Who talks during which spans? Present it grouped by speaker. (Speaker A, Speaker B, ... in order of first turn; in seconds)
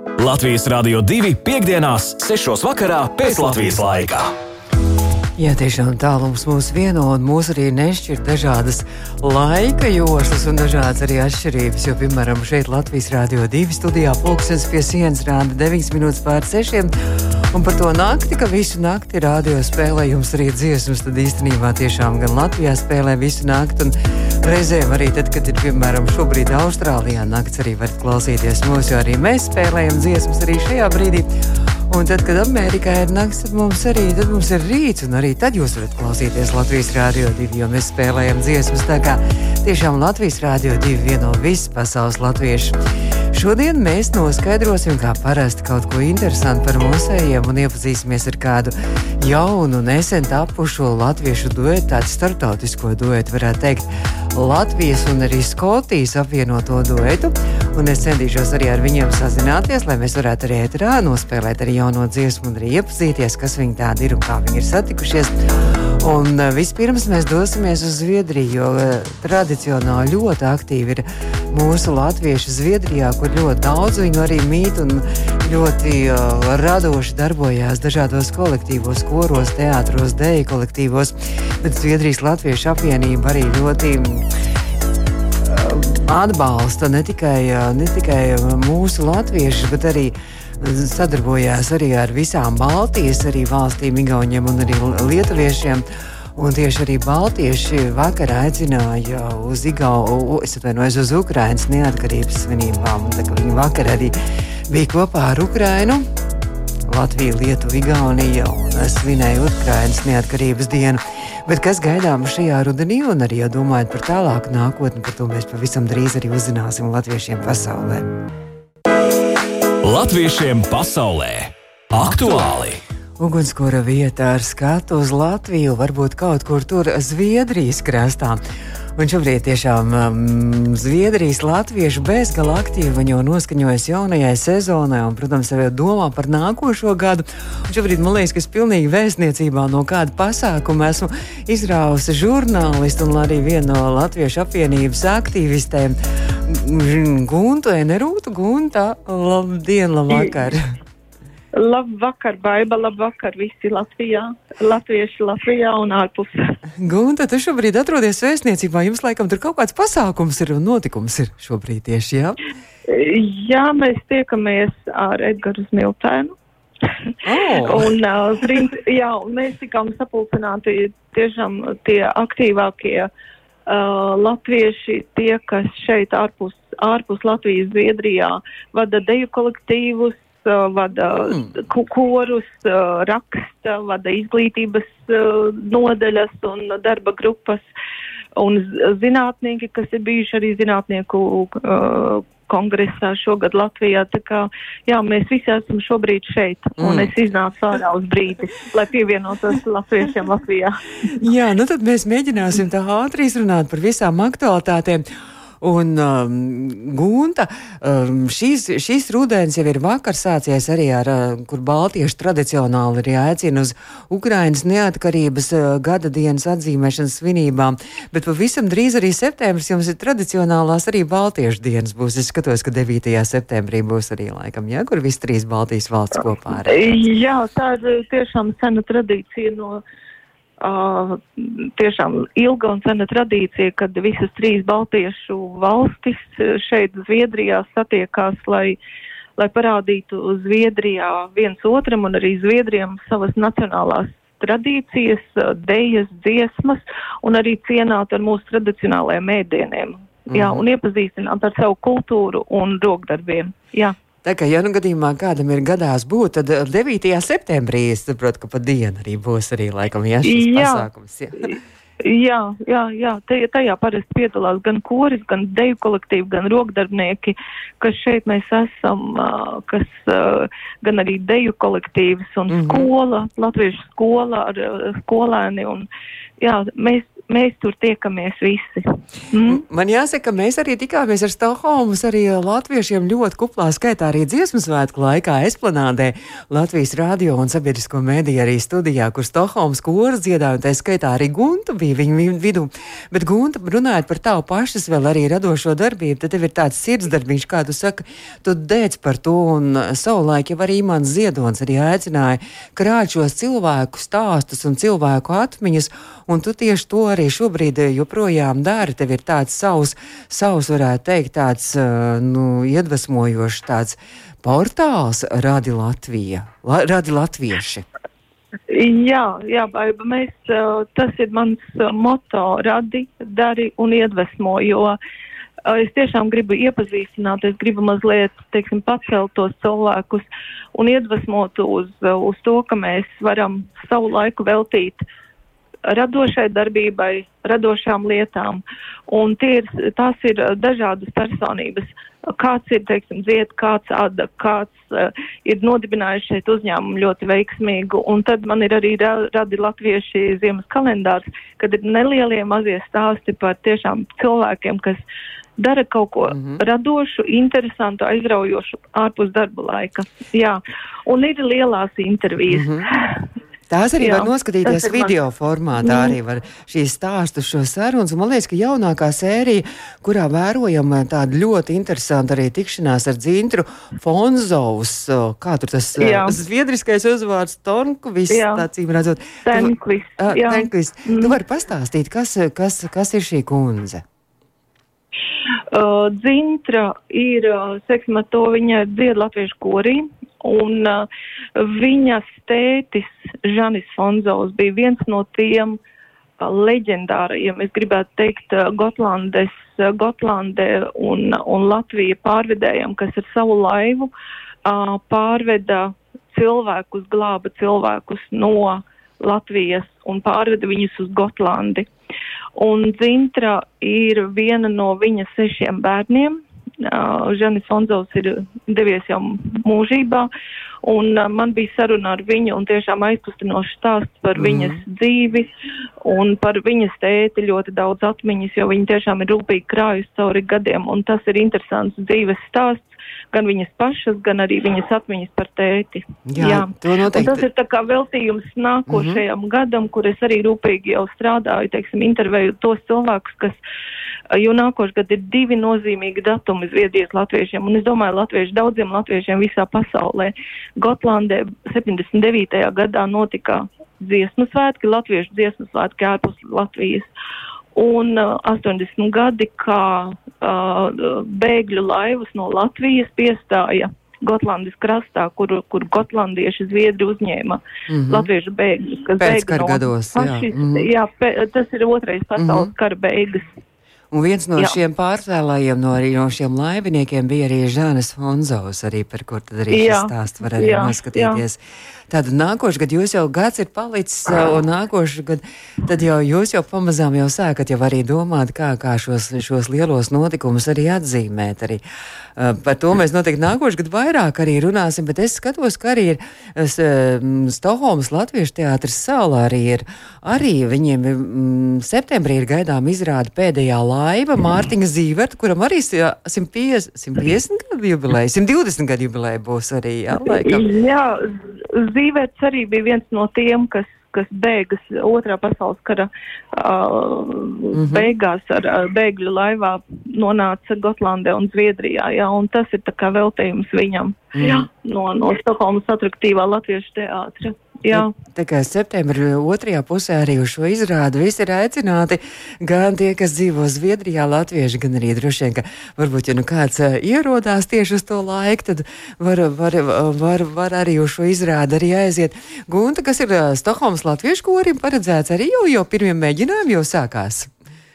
Speaker A: 0.2-4.3, 119.8-122.8
Speaker B: 5.4-16.9, 17.5-31.3, 31.9-42.8, 43.3-65.3, 66.0-84.3, 85.4-104.2, 104.7-106.0, 106.9-118.1, 123.2-128.4, 129.0-150.7, 156.8-162.4, 167.2-167.9, 181.1-181.6, 196.8-197.1, 201.1-205.1, 205.6-227.0, 250.3-250.7, 254.2-261.6, 272.5-272.9, 279.4-317.9, 356.3-356.6, 362.5-362.9, 363.7-384.0, 424.4-424.8, 436.3-437.4, 438.9-439.2, 467.9-468.3, 469.2-470.9, 472.4-472.7, 474.1-481.6, 482.1-491.8, 492.4-510.7, 517.7-518.1, 524.4-524.7, 527.9-547.5
Speaker C: 151.6-156.6, 162.9-173.1, 173.7-187.7, 188.4-200.8, 226.7-229.8, 230.6-238.8, 239.4-254.0, 260.2-260.9, 261.5-275.9, 276.4-279.6, 318.7-325.0, 325.6-335.0, 335.9-355.0, 355.6-363.2, 364.0-365.1, 365.8-366.2, 376.0-376.4, 378.3-378.6, 379.5-381.4, 385.7-395.8, 396.4-404.1, 404.6-411.9, 412.6-420.3, 420.8-425.5, 426.0-443.6, 444.3-457.1, 457.8-473.5, 479.7-481.4, 510.3-528.1